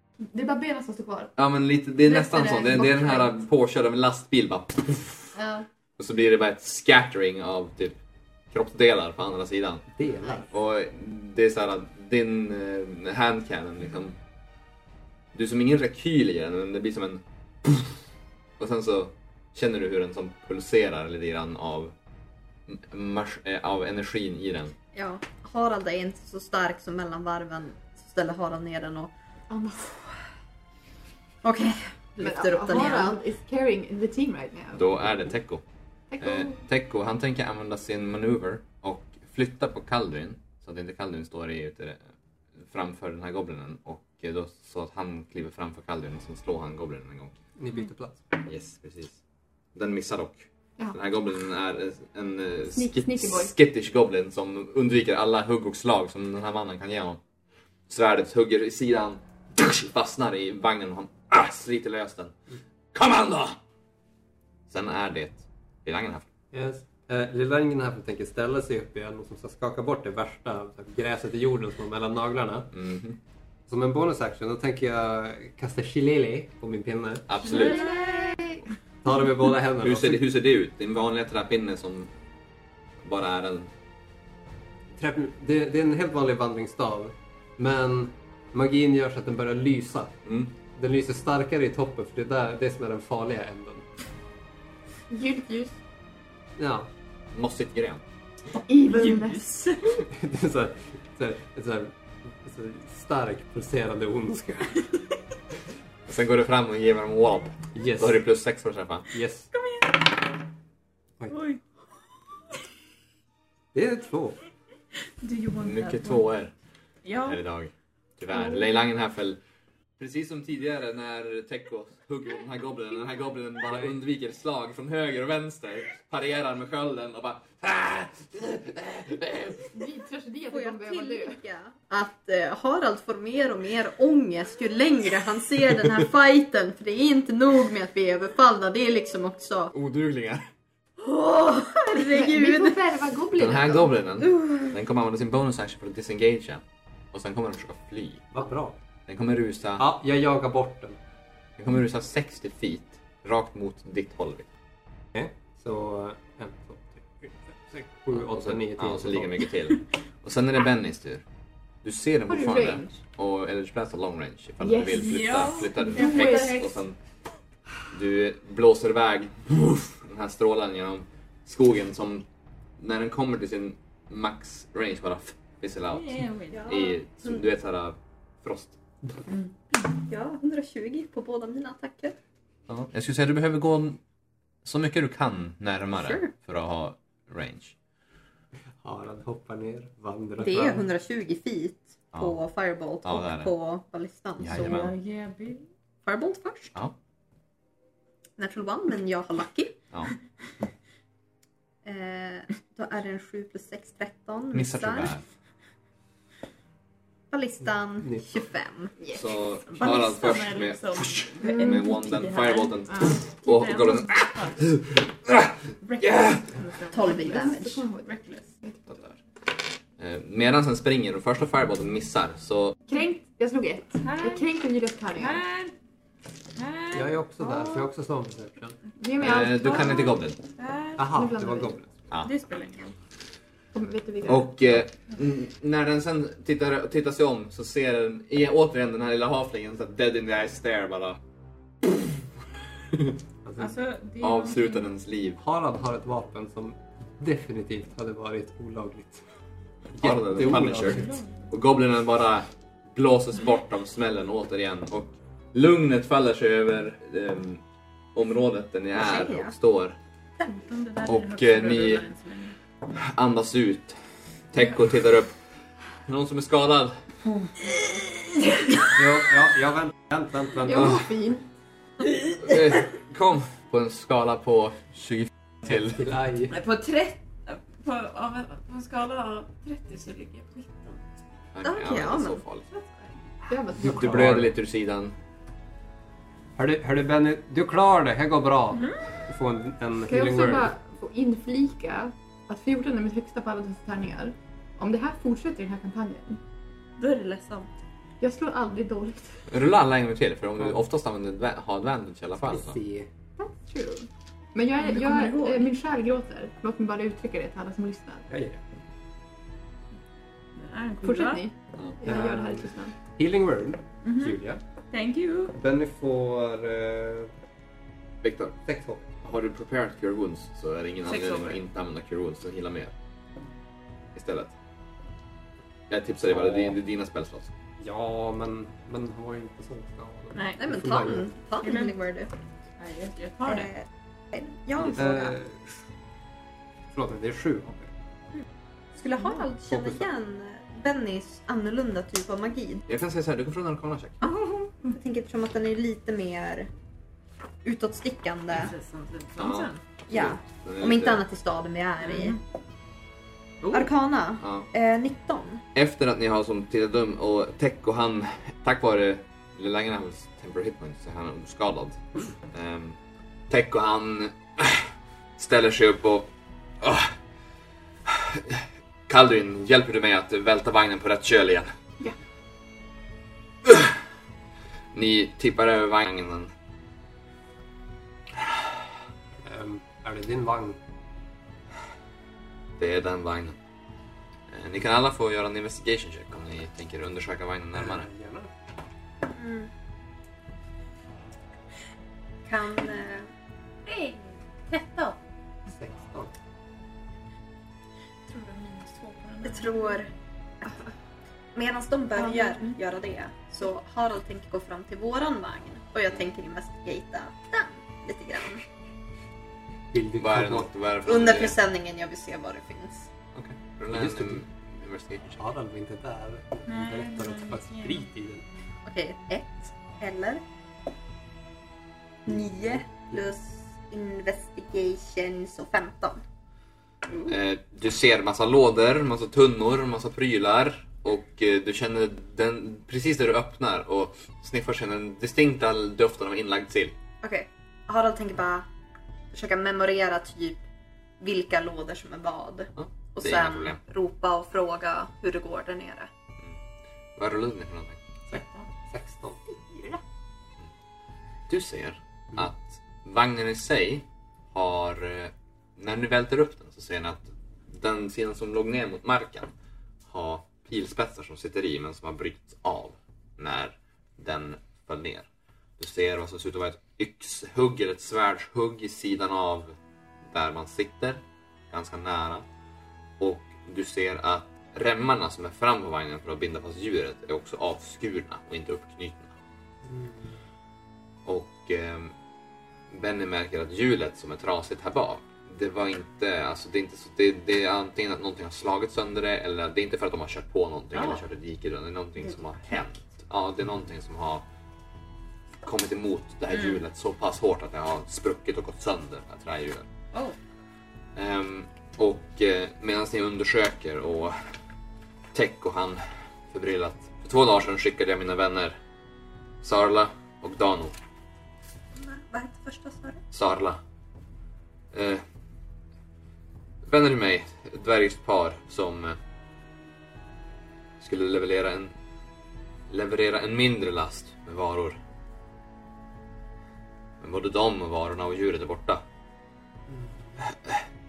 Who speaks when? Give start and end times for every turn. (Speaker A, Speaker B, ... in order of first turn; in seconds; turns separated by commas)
Speaker A: 0.3-1.3, Speaker B: 1.4-5.3, Speaker A: 2.0-3.4, Speaker A: 5.3-5.7, Speaker B: 6.0-8.0, Speaker B: 8.5-9.8, Speaker C: 9.9-10.5, Speaker B: 10.5-14.2, Speaker B: 15.3-17.9, Speaker B: 18.6-21.9, Speaker B: 22.7-24.7, Speaker D: 24.9-29.1, Speaker A: 29.5-30.0, Speaker D: 31.4-33.2, Speaker A: 32.2-34.8, Speaker B: 34.7-35.6, Speaker A: 36.1-36.6, Speaker B: 36.2-42.0, Speaker B: 42.6-47.3, Speaker C: 47.6-48.2, Speaker B: 48.5-49.2, Speaker B: 49.7-57.2, Speaker A: 52.7-53.5, Speaker B: 57.9-62.3, Speaker B: 62.9-63.6, Speaker B: 64.7-66.3, Speaker C: 66.5-72.7, Speaker B: 72.7-73.2, Speaker C: 73.7-77.3, Speaker B: 77.3-77.9, Speaker E: 77.4-78.3, Speaker A: 77.5-78.6, Speaker C: 79.0-80.2, Speaker B: 79.8-82.1, Speaker B: 83.0-83.7, Speaker C: 85.0-90.1, Speaker B: 90.2-90.5, Speaker C: 90.7-93.8, Speaker A: 95.1-95.8, Speaker C: 96.6-96.9, Speaker B: 97.3-98.0, Speaker A: 98.7-99.6, Speaker E: 98.8-99.9, Speaker C: 99.9-104.9, Speaker B: 106.1-109.1, Speaker C: 107.7-108.2, Speaker C: 109.1-109.5, Speaker E: 109.5-110.0, Speaker E: 111.3-111.6, Speaker C: 113.7-114.4, Speaker E: 115.2-116.2, Speaker B: 115.6-116.5, Speaker E: 117.0-117.4, Speaker B: 117.2-119.4, Speaker B: 120.0-129.8, Speaker A: 129.7-131.4, Speaker D: 130.5-139.7, Speaker B: 139.7-140.5, Speaker D: 141.0-142.8, Speaker A: 141.9-144.0, Speaker B: 143.3-148.3, Speaker C: 148.3-148.8, Speaker B: 149.1-149.8, Speaker C: 149.8-151.0, Speaker B: 151.6-154.5, Speaker C: 155.1-159.4, Speaker B: 158.1-161.2, Speaker B: 161.8-167.0, Speaker A: 162.3-162.9, Speaker A: 164.6-166.8, Speaker E: 164.9-166.7, Speaker B: 167.9-172.2, Speaker B: 172.8-178.8, Speaker E: 175.9-176.8, Speaker D: 180.1-182.2, Speaker B: 182.7-184.0, Speaker B: 184.6-187.7, Speaker D: 186.0-186.3, Speaker C: 188.8-190.8, Speaker D: 190.4-194.9, Speaker B: 193.0-193.5, Speaker B: 194.4-194.9, Speaker E: 194.5-195.7, Speaker D: 196.0-196.8, Speaker D: 198.4-199.8, Speaker D: 201.8-205.2, Speaker B: 204.5-205.2, Speaker D: 207.3-208.9, Speaker A: 209.0-209.2, Speaker B: 209.1-216.4, Speaker E: 209.6-214.6, Speaker A: 211.4-211.9, Speaker E: 215.8-217.3, Speaker D: 216.9-217.8, Speaker A: 217.0-219.0, Speaker E: 218.1-218.4, Speaker B: 220.0-222.8, Speaker A: 222.9-225.4, Speaker E: 224.0-224.5, Speaker E: 225.1-225.7, Speaker E: 226.6-227.9, Speaker C: 226.9-228.8, Speaker A: 229.0-230.2, Speaker B: 229.2-230.4, Speaker E: 229.2-231.1, Speaker C: 231.0-231.9, Speaker A: 231.1-231.8, Speaker E: 232.2-232.9, Speaker A: 233.7-234.5, Speaker B: 234.2-241.2, Speaker C: 243.4-243.8, Speaker E: 243.6-244.8, Speaker B: 244.2-245.4, Speaker C: 245.4-249.2, Speaker C: 249.9-251.2, Speaker B: 250.0-257.6, Speaker E: 250.8-251.3, Speaker B: 258.1-260.0, Speaker D: 258.9-259.5, Speaker E: 260.4-262.6, Speaker B: 261.0-262.1, Speaker B: 262.9-264.0, Speaker B: 264.5-265.3, Speaker B: 266.1-266.9, Speaker C: 268.9-271.1, Speaker A: 270.6-271.4, Speaker B: 270.7-271.0, Speaker B: 272.3-276.0, Speaker C: 275.6-276.6, Speaker E: 276.5-281.0, Speaker B: 281.5-282.7, Speaker D: 281.6-282.4, Speaker E: 282.7-283.1, Speaker A: 283.5-284.4, Speaker B: 283.8-285.1, Speaker C: 283.8-284.5, Speaker C: 286.6-290.7, Speaker E: 288.7-289.0, Speaker A: 290.1-296.4, Speaker E: 297.0-297.7, Speaker A: 298.2-299.4, Speaker B: 299.5-302.8, Speaker C: 302.4-303.1, Speaker A: 303.4-308.3, Speaker E: 304.8-305.7, Speaker C: 308.3-308.6, Speaker E: 310.5-311.5, Speaker A: 311.0-312.9, Speaker C: 312.0-314.6, Speaker E: 314.0-314.4, Speaker E: 314.9-315.5, Speaker C: 315.5-317.3, Speaker B: 318.2-318.6, Speaker C: 318.6-319.2, Speaker B: 319.2-322.9, Speaker E: 321.1-321.6, Speaker B: 324.1-324.5, Speaker B: 325.9-327.5, Speaker C: 326.2-326.8, Speaker C: 327.8-331.3, Speaker E: 330.3-330.7, Speaker D: 330.6-332.3, Speaker E: 331.6-331.9, Speaker E: 332.8-333.7, Speaker D: 333.4-335.4, Speaker C: 334.8-335.8, Speaker C: 336.9-337.9, Speaker D: 338.9-342.8, Speaker C: 339.7-340.1, Speaker B: 342.9-344.2, Speaker D: 344.2-346.7, Speaker D: 347.6-348.7, Speaker E: 348.5-349.8, Speaker B: 349.4-351.2, Speaker D: 350.1-352.4, Speaker E: 352.0-352.4, Speaker E: 353.6-353.9, Speaker D: 353.7-355.6, Speaker B: 354.4-354.7, Speaker B: 355.7-363.0, Speaker B: 363.5-366.3, Speaker B: 366.8-367.1, Speaker B: 368.0-371.7, Speaker B: 373.6-374.0, Speaker B: 374.9-376.5, Speaker C: 379.4-380.8, Speaker B: 382.8-383.6, Speaker B: 384.5-388.1, Speaker C: 387.7-388.5, Speaker D: 389.2-389.7, Speaker D: 392.4-393.3, Speaker E: 393.9-395.2, Speaker C: 395.7-396.3, Speaker E: 398.3-399.8, Speaker D: 399.4-400.8, Speaker D: 401.5-408.6, Speaker A: 402.2-402.8, Speaker C: 409.9-410.7, Speaker B: 410.2-411.6, Speaker D: 411.0-413.1, Speaker B: 413.3-415.4, Speaker C: 413.9-414.4, Speaker C: 415.4-418.4, Speaker E: 416.7-418.1, Speaker D: 418.8-420.4, Speaker D: 422.2-426.2, Speaker B: 427.3-436.9, Speaker D: 437.2-438.7, Speaker D: 439.3-440.6, Speaker D: 441.2-446.1, Speaker B: 442.8-443.8, Speaker B: 447.1-448.0, Speaker C: 448.3-449.4, Speaker E: 448.3-448.6, Speaker D: 449.6-450.0, Speaker B: 451.5-459.5, Speaker B: 460.1-472.4, Speaker B: 473.2-479.3, Speaker C: 479.8-480.3, Speaker B: 481.2-482.1, Speaker B: 482.9-494.4, Speaker B: 495.6-499.9, Speaker B: 501.1-504.4, Speaker B: 505.3-508.8, Speaker B: 509.6-510.9, Speaker D: 511.9-513.2, Speaker B: 513.3-513.8, Speaker B: 514.9-515.2, Speaker B: 516.8-519.2, Speaker B: 521.0-521.9, Speaker B: 522.9-525.0, Speaker B: 527.2-529.0, Speaker C: 529.9-530.4, Speaker B: 530.5-530.8